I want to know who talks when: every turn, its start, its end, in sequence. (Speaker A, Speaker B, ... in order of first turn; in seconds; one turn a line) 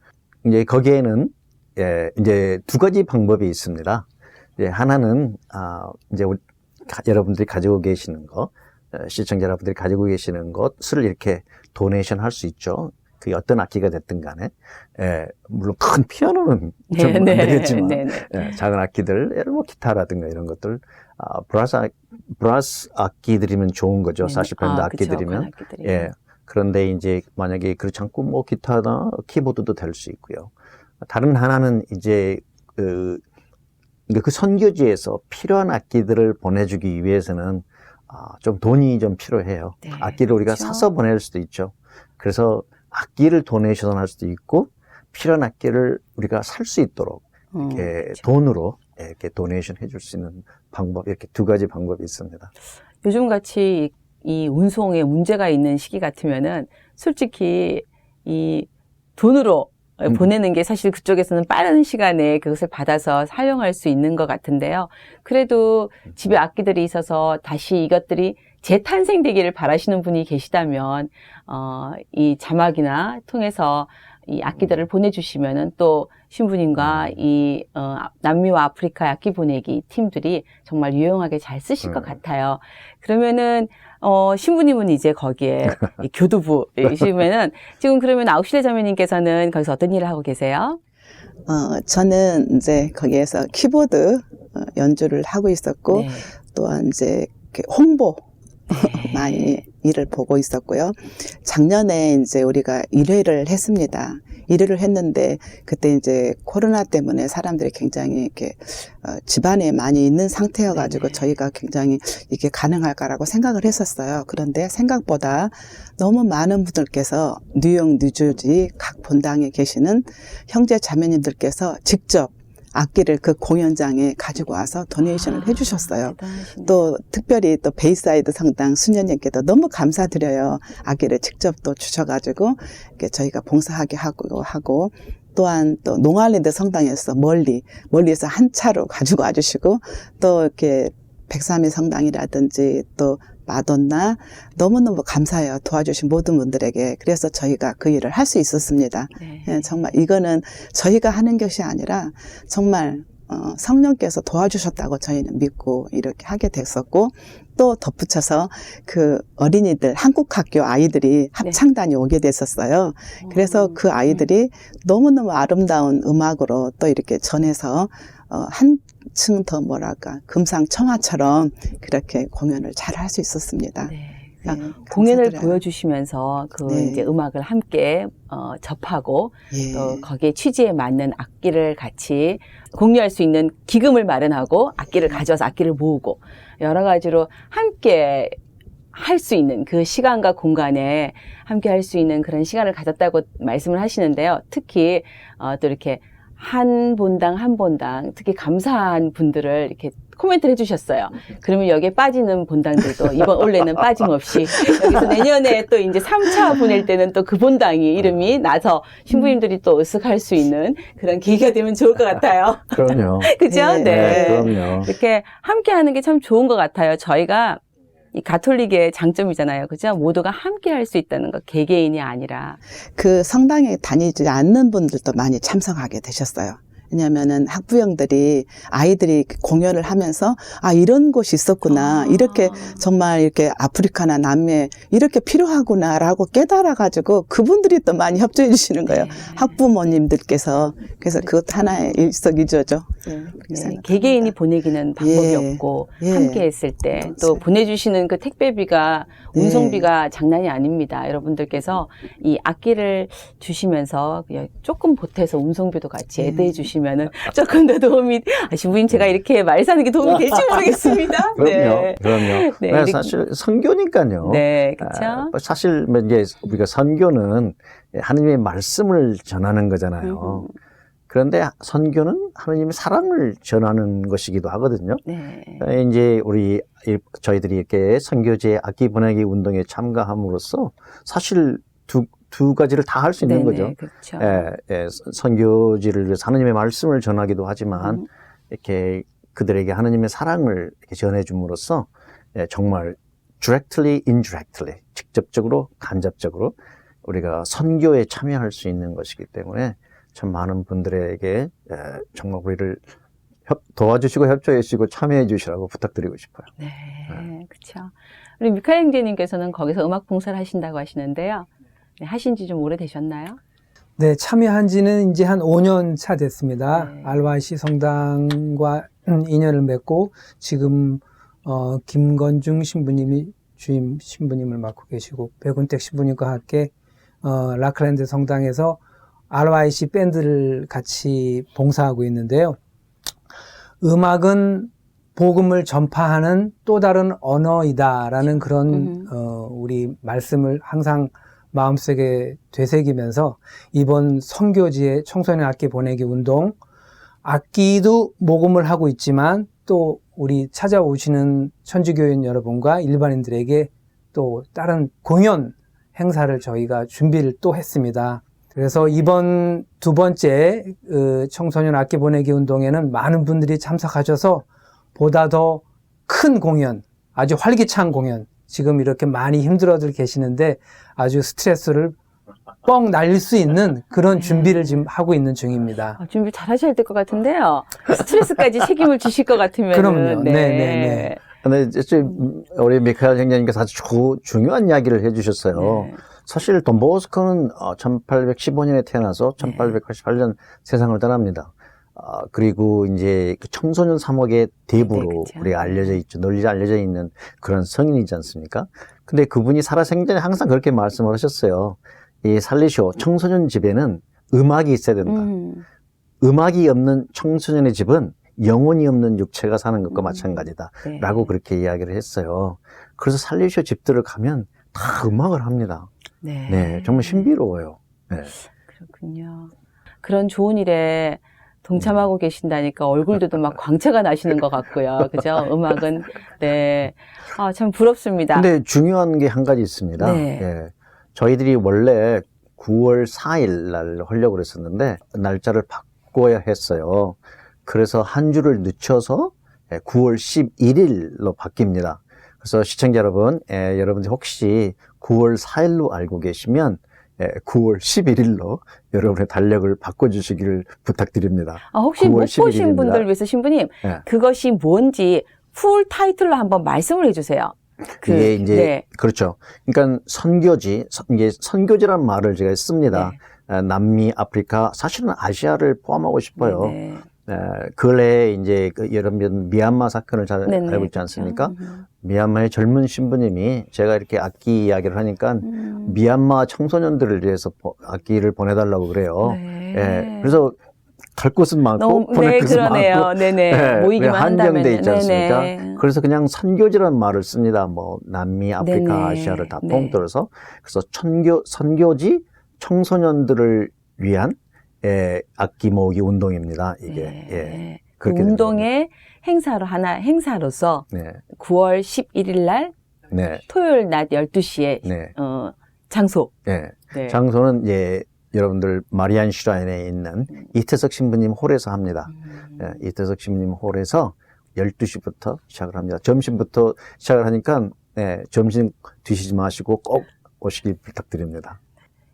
Speaker A: 0.4-33.2
Speaker B: 16.9-18.5
Speaker B: 24.2-26.1
Speaker A: 34.1-52.5
Speaker B: 39.8-40.9
Speaker B: 47.5-48.2
Speaker B: 53.0-90.8
Speaker A: 76.8-77.1
Speaker A: 81.8-82.2
Speaker C: 91.5-173.9
Speaker B: 95.9-96.3
Speaker B: 98.7-99.6
Speaker B: 110.7-111.3
Speaker B: 125.0-126.9
Speaker B: 149.2-149.7
Speaker B: 163.2-164.2
Speaker B: 173.8-188.4
Speaker C: 174.4-175.6
Speaker C: 176.7-177.1
Speaker C: 179.5-180.0
Speaker B: 188.9-217.6
Speaker A: 208.0-208.3
Speaker A: 212.7-214.9
Speaker C: 213.5-214.4
Speaker B: 218.1-222.6
Speaker C: 223.0-244.3
Speaker B: 231.6-232.8
Speaker B: 238.9-239.6
Speaker B: 243.5-263.1
Speaker C: 245.0-247.4
Speaker C: 249.3-249.9
Speaker C: 256.2-256.7
Speaker A: 261.4-270.5
Speaker B: 264.2-265.3
Speaker B: 270.0-270.5
Speaker A: 271.1-275.0
Speaker B: 275.0-275.6
Speaker A: 275.6-302.9
Speaker B: 283.2-284.4
Speaker B: 287.8-288.1
Speaker A: 303.4-306.5
Speaker B: 306.6-311.5
Speaker B: 312.0-313.4
Speaker D: 314.0-326.7
Speaker B: 316.7-317.1
Speaker D: 327.2-328.8
Speaker D: 329.3-332.6
Speaker D: 333.8-346.6
Speaker B: 338.2-339.1
Speaker D: 347.2-364.4
Speaker D: 364.9-371.9
Speaker D: 372.6-376.0
Speaker B: 374.1-374.8
Speaker B: 376.0-381.2
Speaker D: 379.7-381.1
Speaker A: 381.4-405.3
Speaker B: 385.5-386.0
Speaker B: 389.4-389.8
Speaker B: 394.9-396.0
Speaker B: 405.0-405.6
Speaker A: 406.2-415.9
Speaker B: 409.9-411.3
Speaker B: 416.2-417.3
Speaker A: 416.5-418.3
Speaker B: 418.8-428.5
Speaker A: 428.3-453.1
Speaker B: 430.0-430.5
Speaker B: 451.7-458.8
Speaker A: 458.0-480.6
Speaker B: 462.9-463.2
Speaker B: 466.4-467.1
Speaker B: 470.4-471.8
Speaker B: 475.4-476.0
Speaker B: 479.2-480.4
Speaker A: 481.1-498.6
Speaker B: 481.8-485.8
Speaker B: 488.6-490.0
Speaker B: 496.9-502.7
Speaker A: 500.9-501.2
Speaker A: 503.1-503.4
Speaker B: 503.4-506.3
Speaker A: 504.8-505.1
Speaker A: 506.4-521.6
Speaker B: 506.9-507.2
Speaker B: 512.3-512.6